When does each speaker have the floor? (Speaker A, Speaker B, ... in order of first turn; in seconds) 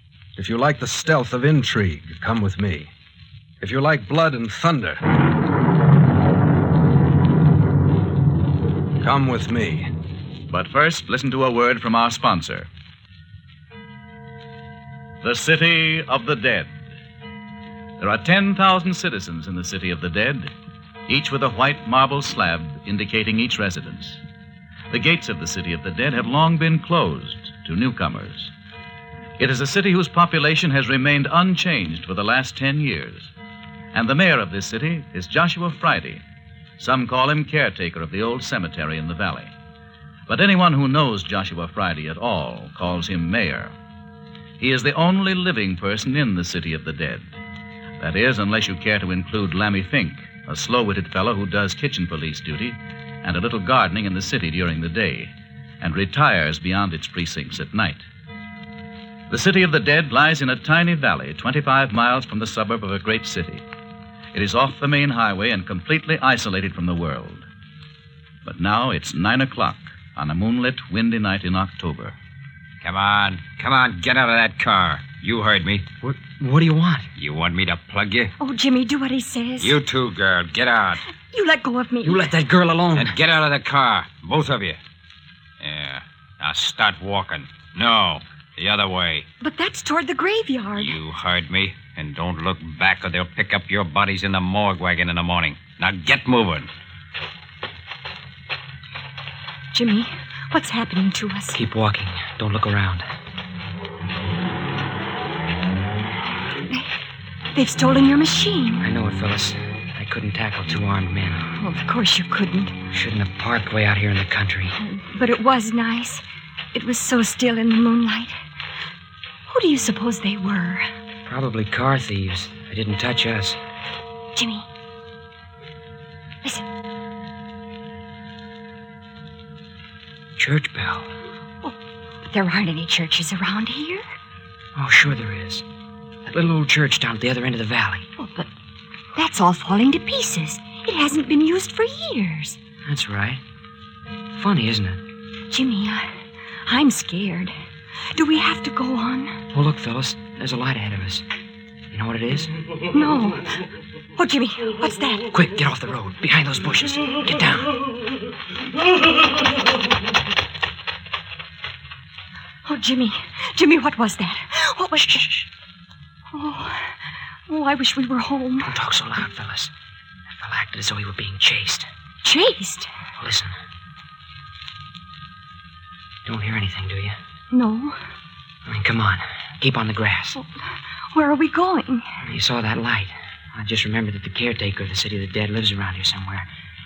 Speaker A: 0.4-2.8, 3.6-5.0, 9.0-9.8
Speaker B: 10.5-12.7, 15.2-16.7, 18.0-20.5, 21.1-24.2, 24.9-28.5, 29.4-33.3, 33.9-36.2, 36.8-39.5, 40.3-43.7, 44.6-47.4, 48.0-58.0, 59.3-63.6, 64.3-67.4, 68.4-72.2
Speaker C: 72.8-75.9, 77.2-78.3, 79.6-81.0, 82.9-84.8, 85.6-89.2, 90.8-96.7
Speaker D: 76.0-77.1, 82.0-83.2, 101.5-103.0, 108.8-111.5, 112.9-114.8, 121.2-123.6, 130.4-131.1, 134.7-135.6, 136.3-138.1, 142.8-143.4, 144.3-145.0, 149.5-151.2, 151.9-152.5, 155.3-157.9, 168.6-169.7, 170.3-171.9, 173.2-173.5, 176.2-177.2, 178.6-180.4, 182.2-186.4
Speaker E: 78.4-79.8, 81.3-82.3, 89.4-90.9, 99.7-101.6, 107.5-108.8, 111.6-112.7, 114.8-116.2, 116.7-118.3, 119.5-120.8, 124.3-124.7, 132.3-134.0, 138.2-138.5, 139.2-142.6, 145.5-146.1, 146.7-147.5, 148.1-149.3, 152.9-153.6, 154.2-155.2, 162.7-165.5, 166.3-166.9, 167.5-168.7, 172.2-172.9, 177.5-178.0, 181.1-182.0